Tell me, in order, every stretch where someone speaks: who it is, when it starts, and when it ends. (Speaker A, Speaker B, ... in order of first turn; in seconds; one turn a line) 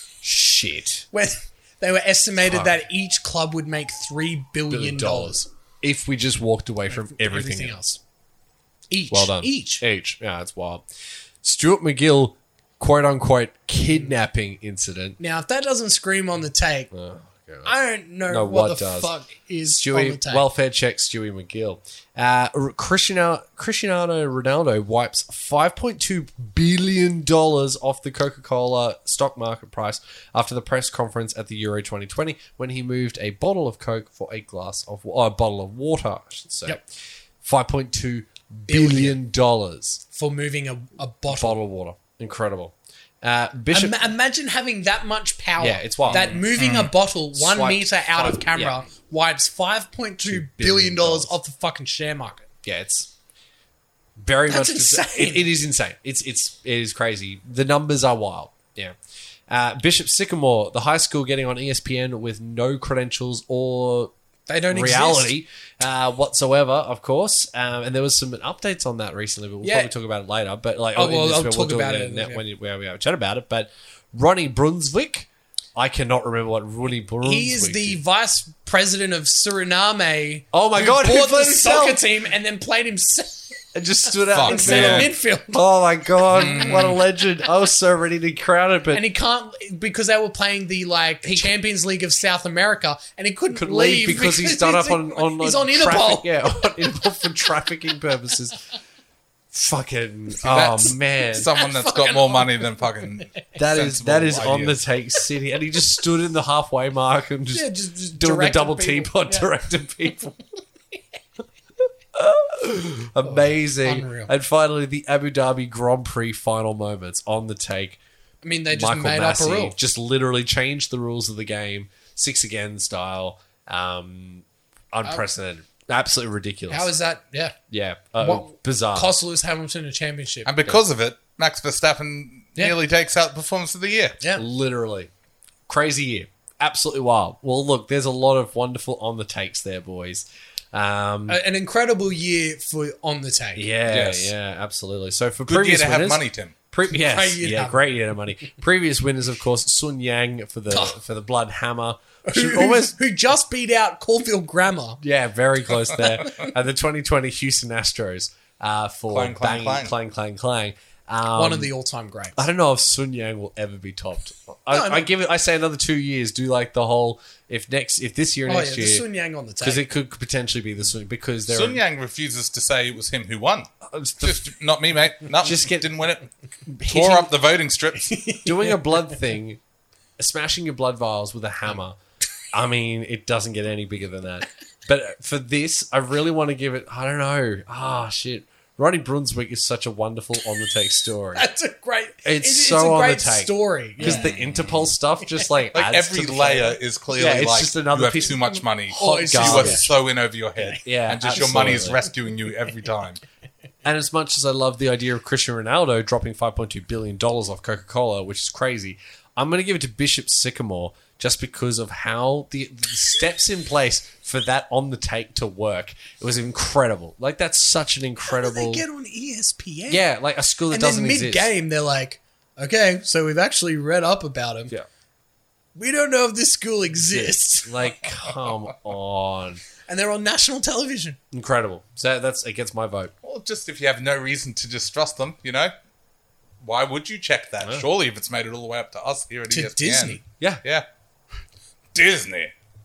Speaker A: 0.2-1.1
Speaker B: 1.1-5.5
Speaker A: 2.4-2.7
Speaker A: 4.7-7.8
Speaker B: 6.9-8.0
Speaker B: 8.9-9.8
Speaker A: 9.1-10.8
Speaker A: 11.4-15.2
Speaker B: 15.2-16.9
Speaker A: 16.9-17.7
Speaker B: 17.6-20.4
Speaker A: 18.3-19.1
Speaker A: 19.8-36.9
Speaker A: 37.4-40.0
Speaker B: 38.7-39.2
Speaker B: 40.1-41.6
Speaker A: 41.3-44.1
Speaker B: 43.7-52.5
Speaker A: 45.6-46.5
Speaker C: 46.0-46.9
Speaker A: 47.3-48.8
Speaker A: 50.2-51.4
Speaker A: 52.6-53.1
Speaker A: 54.2-59.0
Speaker B: 54.5-55.5
Speaker A: 59.5-64.1
Speaker B: 64.5-65.3
Speaker A: 64.7-78.0
Speaker B: 69.6-69.9
Speaker B: 70.9-72.4
Speaker B: 77.2-85.6
Speaker A: 80.5-82.0
Speaker A: 83.7-89.1
Speaker C: 84.3-85.1
Speaker C: 86.3-87.0
Speaker B: 86.3-86.9
Speaker B: 88.9-97.2
Speaker A: 91.2-91.5
Speaker A: 93.5-98.6
Speaker A: 99.5-101.5
Speaker C: 100.4-104.8
Speaker B: 101.5-103.2
Speaker A: 103.5-110.4
Speaker B: 107.5-109.5
Speaker A: 112.1-118.0
Speaker B: 113.2-114.3
Speaker B: 118.4-119.8
Speaker A: 118.7-126.9
Speaker B: 126.7-127.5
Speaker A: 127.7-129.1
Speaker B: 128.2-130.5
Speaker C: 130.4-134.2
Speaker A: 134.3-135.1
Speaker A: 135.7-141.4
Speaker B: 141.3-143.6
Speaker A: 143.5-152.9
Speaker C: 143.9-144.3
Speaker C: 145.5-146.5
Speaker B: 146.9-147.8
Speaker B: 150.7-151.0
Speaker B: 152.2-155.0
Speaker A: 155.0-161.7
Speaker B: 156.0-156.5
Speaker C: 159.1-159.9
Speaker B: 161.3-162.4
Speaker A: 162.3-169.1
Speaker B: 164.7-165.1
Speaker B: 168.4-169.8
Speaker A: 169.6-171.8
Speaker C: 171.5-176.3
Speaker A: 173.9-174.4
Speaker A: 175.4-175.9
Speaker A: 176.7-177.3
Speaker C: 176.8-178.1
Speaker B: 178.0-179.0
Speaker A: 178.4-179.6
Speaker A: 180.2-182.0
Speaker A: 182.5-191.5
Speaker B: 191.3-194.3
Speaker A: 192.2-199.8
Speaker C: 194.0-194.6
Speaker C: 195.7-203.2
Speaker B: 198.9-199.9
Speaker A: 200.8-202.0
Speaker A: 203.8-218.8
Speaker B: 218.2-220.1
Speaker A: 219.9-221.5
Speaker B: 220.7-224.7
Speaker B: 225.8-227.8
Speaker A: 227.0-229.6
Speaker B: 229.9-231.2
Speaker A: 231.3-233.1
Speaker C: 233.2-235.7
Speaker C: 236.6-240.8
Speaker A: 237.6-237.9
Speaker B: 239.5-240.2
Speaker C: 241.9-242.5